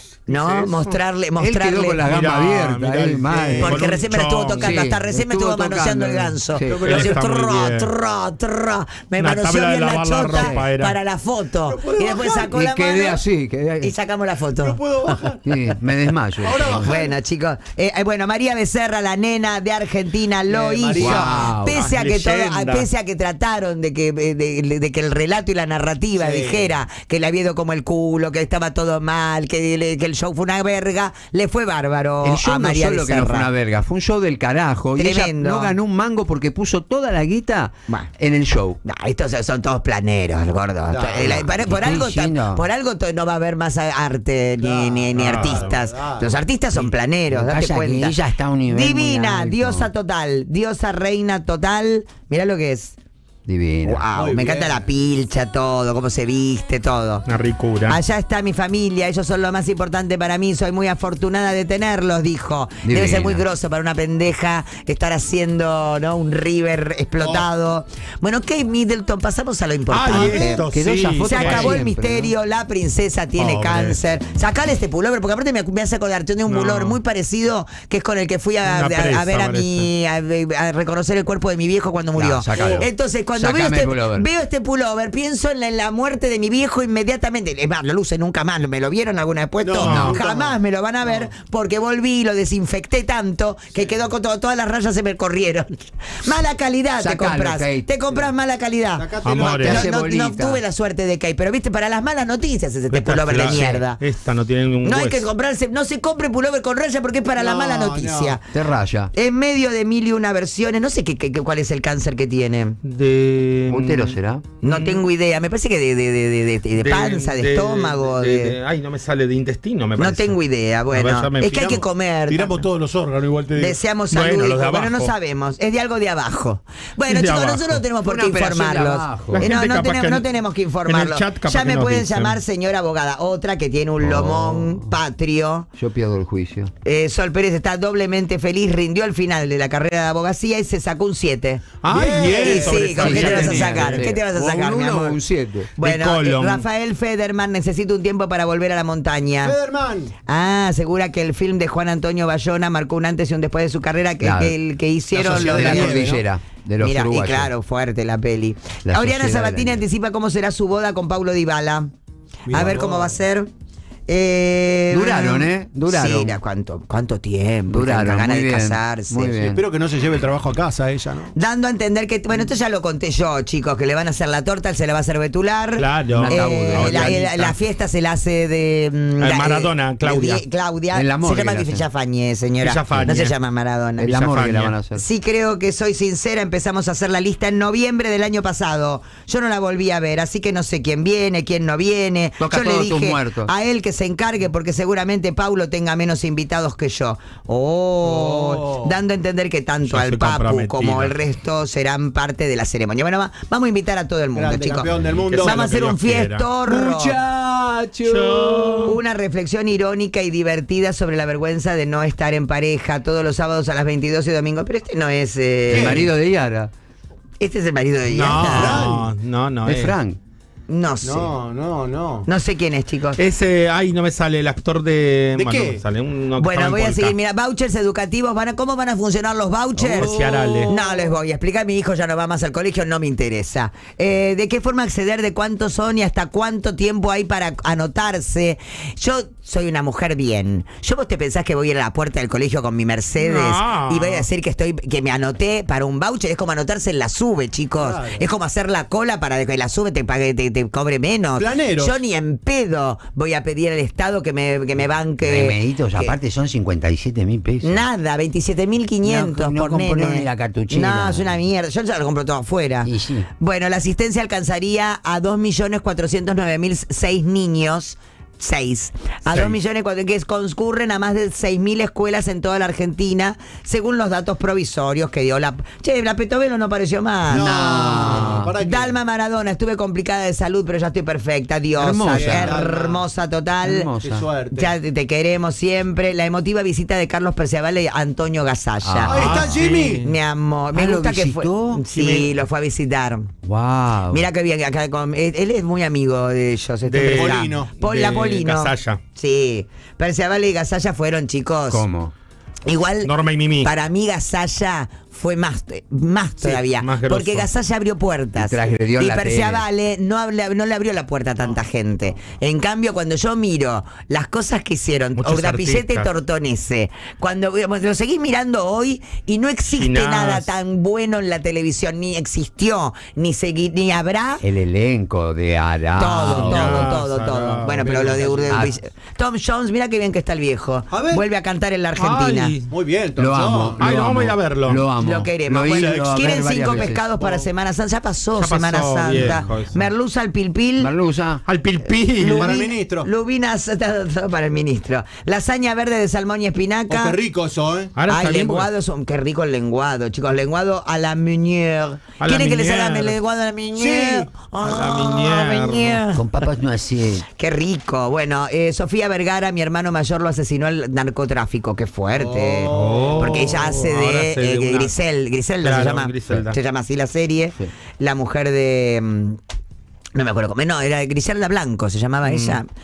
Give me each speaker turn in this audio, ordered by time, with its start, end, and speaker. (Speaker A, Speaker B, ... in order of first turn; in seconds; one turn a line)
Speaker A: 0.3-1.0
Speaker B: 0.3-2.1
Speaker C: 1.4-3.8
Speaker A: 2.0-4.9
Speaker D: 3.3-3.8
Speaker B: 3.6-13.2
Speaker C: 4.5-6.8
Speaker D: 6.6-7.3
Speaker A: 6.8-7.9
Speaker A: 9.2-11.0
Speaker C: 10.3-10.7
Speaker D: 11.7-12.5
Speaker C: 12.5-13.9
Speaker B: 13.8-14.8
Speaker D: 14.6-15.4
Speaker C: 15.4-17.0
Speaker D: 16.4-17.1
Speaker B: 16.8-33.5
Speaker D: 20.5-21.5
Speaker C: 21.0-21.8
Speaker A: 21.7-22.9
Speaker D: 26.1-26.7
Speaker C: 32.2-38.8
Speaker B: 35.0-35.8
Speaker B: 38.8-48.1
Speaker D: 40.9-41.5
Speaker C: 41.1-42.6
Speaker D: 44.6-46.4
Speaker A: 45.1-45.7
Speaker C: 46.8-49.9
Speaker B: 48.7-52.9
Speaker C: 53.5-54.0
Speaker B: 53.8-57.2
Speaker D: 54.1-54.9
Speaker A: 57.3-58.0
Speaker B: 57.9-70.6
Speaker C: 62.8-63.4
Speaker D: 67.2-67.5
Speaker A: 69.9-71.8
Speaker D: 70.1-70.5
Speaker C: 70.7-72.3
Speaker B: 71.2-104.0
Speaker A: 73.4-74.0
Speaker A: 76.5-77.0
Speaker A: 78.7-79.9
Speaker C: 82.1-84.3
Speaker D: 82.5-82.9
Speaker D: 89.6-91.3
Speaker A: 89.8-90.2
Speaker C: 89.8-90.2
Speaker C: 97.0-97.9
Speaker D: 99.0-99.9
Speaker A: 99.2-99.8
Speaker C: 99.5-100.6
Speaker A: 102.9-105.2
Speaker B: 104.8-108.4
Speaker D: 107.4-108.4
Speaker C: 108.5-109.1
Speaker B: 109.1-112.8
Speaker A: 112.8-115.0
Speaker C: 113.7-114.5
Speaker B: 114.6-118.5
Speaker A: 116.8-120.4
Speaker B: 120.0-122.6
Speaker A: 120.9-121.8
Speaker D: 121.5-121.8
Speaker D: 122.3-123.8
Speaker B: 123.6-135.7
Speaker A: 124.1-125.1
Speaker A: 127.1-127.8
Speaker C: 128.0-129.4
Speaker A: 129.3-130.3
Speaker A: 130.9-132.4
Speaker C: 134.0-135.0
Speaker C: 135.8-136.7
Speaker B: 136.8-145.2
Speaker A: 141.8-144.1
Speaker D: 141.9-143.6
Speaker C: 143.0-145.7
Speaker B: 145.8-149.5
Speaker A: 145.8-146.7
Speaker D: 149.4-150.1
Speaker B: 150.3-156.2
Speaker C: 154.2-154.6
Speaker D: 155.1-156.2
Speaker C: 155.2-157.5
Speaker B: 156.8-161.9
Speaker C: 158.8-159.8
Speaker D: 162.5-163.1
Speaker B: 162.5-163.5
Speaker B: 164.1-169.5
Speaker C: 164.9-166.3
Speaker C: 167.7-169.7
Speaker D: 169.5-171.3
Speaker B: 171.3-184.1
Speaker A: 175.8-177.5
Speaker C: 176.1-177.3
Speaker A: 179.2-180.4
Speaker C: 180.9-181.8
Speaker A: 182.6-183.3
Speaker C: 182.9-183.2
Speaker C: 184.0-185.0
Speaker A: 184.1-184.7
Speaker B: 184.9-204.9
Speaker C: 192.4-193.5
Speaker D: 198.0-198.9
Speaker A: 199.8-201.2
Speaker D: 204.3-205.7
Speaker A: 205.1-206.5
Speaker B: 205.4-207.2
Speaker C: 206.7-209.0
Speaker A: 208.0-208.9
Speaker B: 208.8-216.1
Speaker C: 215.7-216.7
Speaker D: 215.7-216.1
Speaker B: 217.4-218.9
Speaker A: 218.1-219.9
Speaker D: 218.5-219.1
Speaker C: 219.6-220.2
Speaker B: 220.7-221.3
Speaker D: 221.0-222.3
Speaker B: 222.2-223.2
Speaker A: 223.2-227.2
Speaker D: 225.3-225.8
Speaker B: 226.4-230.1
Speaker D: 229.8-231.1
Speaker A: 230.0-230.7
Speaker B: 230.7-256.1
Speaker A: 243.2-244.3
Speaker D: 247.8-248.3
Speaker D: 251.4-252.0
Speaker C: 255.2-257.8
Speaker B: 257.6-277.5
Speaker C: 259.0-261.4
Speaker C: 262.8-263.3
Speaker C: 277.3-278.5
Speaker D: 277.3-279.0
Speaker B: 278.1-283.9
Speaker C: 281.8-282.6
Speaker D: 282.1-283.0
Speaker C: 283.6-284.3
Speaker D: 284.0-284.7
Speaker B: 284.5-289.1
Speaker C: 288.8-289.6
Speaker D: 289.1-290.1
Speaker A: 289.1-290.1
Speaker B: 289.8-293.3
Speaker C: 290.7-291.8
Speaker A: 291.9-292.4
Speaker C: 293.4-294.2
Speaker B: 294.1-301.8
Speaker A: 296.9-299.0
Speaker D: 297.1-297.7
Speaker C: 301.7-302.1
Speaker B: 302.6-303.1
Speaker A: 303.0-303.7
Speaker B: 303.6-324.4
Speaker A: 306.4-307.5
Speaker C: 308.4-309.6
Speaker A: 315.2-316.1
Speaker A: 319.8-320.5
Speaker C: 324.4-327.0
Speaker B: 325.9-332.5
Speaker A: 326.2-328.3
Speaker D: 327.8-328.7
Speaker C: 328.5-328.7
Speaker D: 330.9-331.2
Speaker A: 332.0-332.7
Speaker D: 332.7-333.8
Speaker C: 333.2-337.0
Speaker A: 333.8-334.8
Speaker B: 335.0-340.9
Speaker D: 336.2-337.4
Speaker A: 338.4-339.9
Speaker C: 339.1-339.4
Speaker C: 340.8-341.4
Speaker A: 341.5-342.6
Speaker B: 342.2-347.2
Speaker D: 342.2-343.1
Speaker D: 346.9-347.9
Speaker A: 347.9-348.7
Speaker B: 348.1-356.5
Speaker A: 352.2-353.1
Speaker D: 353.7-354.3
Speaker A: 354.6-356.1
Speaker C: 356.1-357.3
Speaker B: 357.4-369.4
Speaker D: 362.1-363.5
Speaker A: 362.7-364.9
Speaker A: 365.6-366.6
Speaker B: 370.1-372.7
Speaker A: 372.2-372.6